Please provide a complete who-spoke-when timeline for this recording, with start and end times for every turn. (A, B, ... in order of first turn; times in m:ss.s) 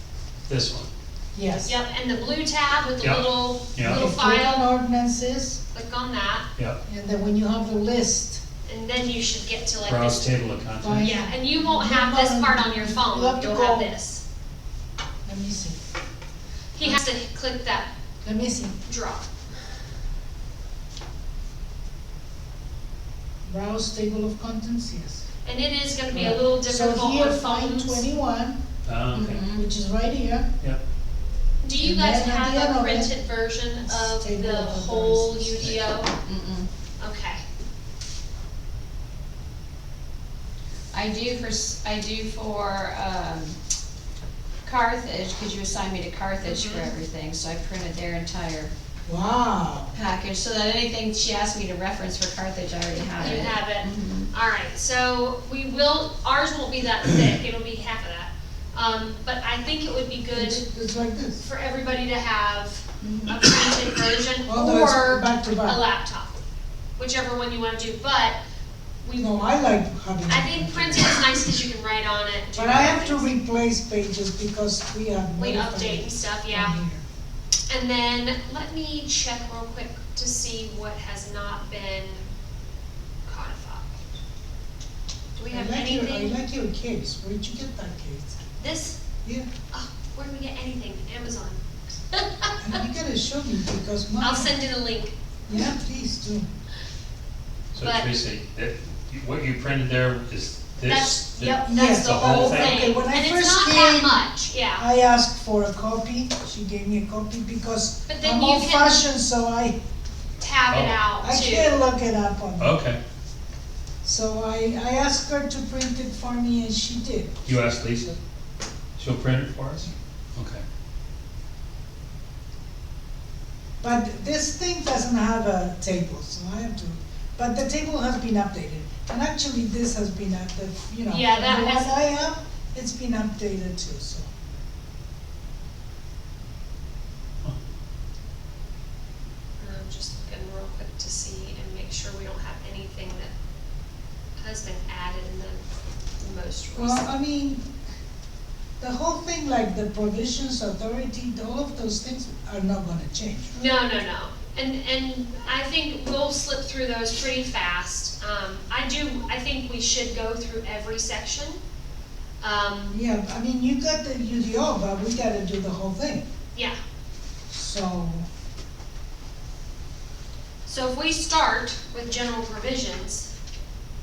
0:00.5-0:00.9 A
0:01.3-0:01.7 B
0:01.6-0:04.6 C
0:03.0-0:04.0 A
0:03.8-0:05.6 B
0:05.7-0:06.5 C
0:06.8-0:08.4 B
0:08.6-0:10.3 C
0:09.8-0:11.2 A
0:10.8-0:13.9 B
0:11.0-0:14.2 C
0:15.2-0:15.8 B
0:16.7-0:17.9 C
0:18.2-0:18.8 B
0:18.8-0:19.2 C
0:23.4-0:25.2 B
0:25.4-0:28.0 C
0:26.1-0:28.6 B
0:28.8-0:29.4 A
0:29.1-0:29.6 D
0:29.5-0:30.5 B
0:31.6-0:36.1 C
0:31.8-0:33.1 B
0:33.8-0:35.7 B
0:36.2-0:36.7 D
0:37.0-0:37.4 C
0:40.9-0:43.6 D
0:44.6-0:48.7 D
0:46.4-0:46.9 C
0:49.1-0:49.9 B
0:49.9-0:54.3 D
0:53.1-1:00.6 C
1:00.3-1:01.4 B
1:01.4-1:06.4 C
1:03.0-1:03.3 D
1:04.4-1:05.8 B
1:07.0-1:08.4 C
1:09.0-1:09.6 C
1:09.2-1:11.3 B
1:10.3-1:13.3 C
1:12.5-1:17.0 B
1:15.4-1:16.8 C
1:17.7-1:22.3 C
1:23.2-1:23.9 C
1:25.3-1:26.3 C
1:25.5-1:28.4 B
1:28.6-1:29.0 C
1:29.7-1:31.6 C
1:32.1-1:32.7 C
1:32.6-1:34.5 B
1:34.2-1:35.7 C
1:35.5-1:36.5 B
1:37.7-1:42.8 A
1:37.8-1:38.1 C
1:40.8-1:44.8 C
1:41.6-1:44.2 B
1:44.7-1:49.8 B
1:48.1-1:49.0 C
1:50.4-1:51.8 C
1:50.7-1:51.0 A
1:51.2-1:52.8 B
1:52.6-1:53.0 A
1:54.0-1:57.4 B
1:57.4-1:58.2 A
1:59.0-2:00.6 A
2:03.8-2:14.3 B
2:11.1-2:12.1 C
2:19.6-2:23.3 C
2:24.4-2:25.6 C
2:26.2-2:27.1 C
2:26.7-2:27.6 B
2:28.8-2:33.7 B
2:33.5-2:41.6 C
2:42.4-2:43.0 C
2:42.9-2:46.2 B
2:47.5-2:48.3 B
2:50.6-2:53.3 C